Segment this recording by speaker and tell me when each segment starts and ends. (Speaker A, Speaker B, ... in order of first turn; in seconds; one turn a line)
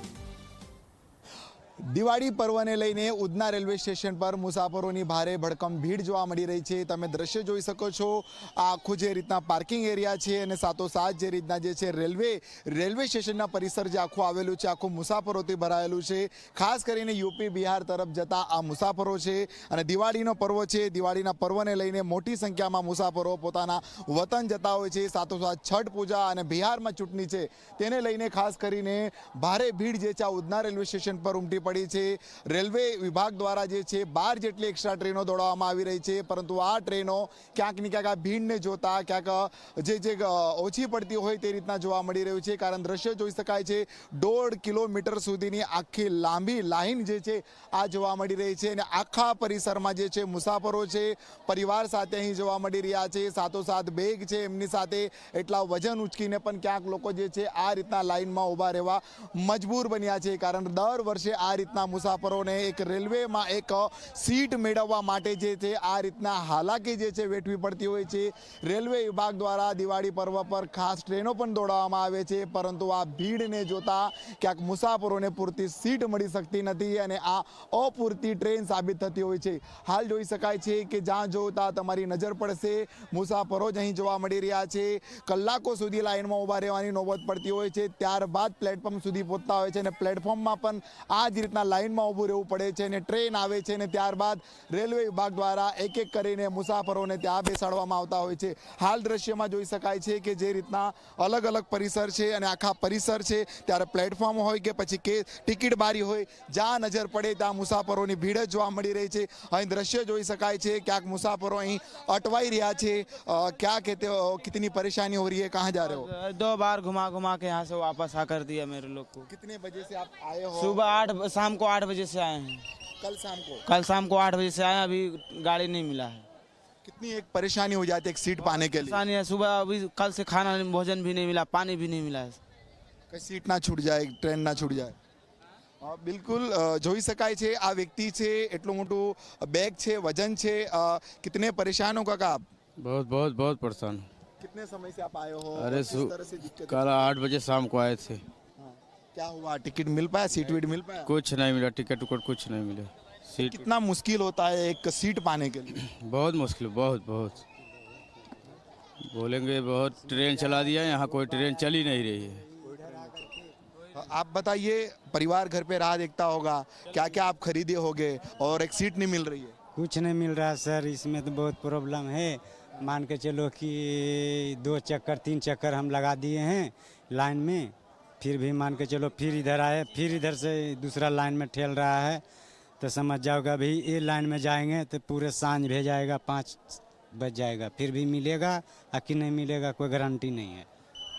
Speaker A: 1.9-116.1
Speaker B: 115.8-119.3
Speaker A: 119.3-120.8
Speaker B: 120.5-122.7
Speaker A: 123.0-123.6
Speaker B: 123.7-126.3
Speaker A: 126.8-129.0
Speaker B: 128.4-132.4
Speaker A: 133.1-134.9
Speaker A: 135.8-142.4
Speaker C: 142.8-144.1
Speaker A: 144.4-147.1
Speaker C: 145.6-146.1
Speaker C: 146.7-148.2
Speaker A: 148.6-151.1
Speaker C: 151.0-153.7
Speaker A: 153.4-155.8
Speaker C: 155.8-157.4
Speaker C: 159.1-162.4
Speaker D: 160.3-160.7
Speaker D: 162.4-163.4
Speaker A: 163.9-169.5
Speaker D: 169.8-182.2
Speaker D: 182.8-190.7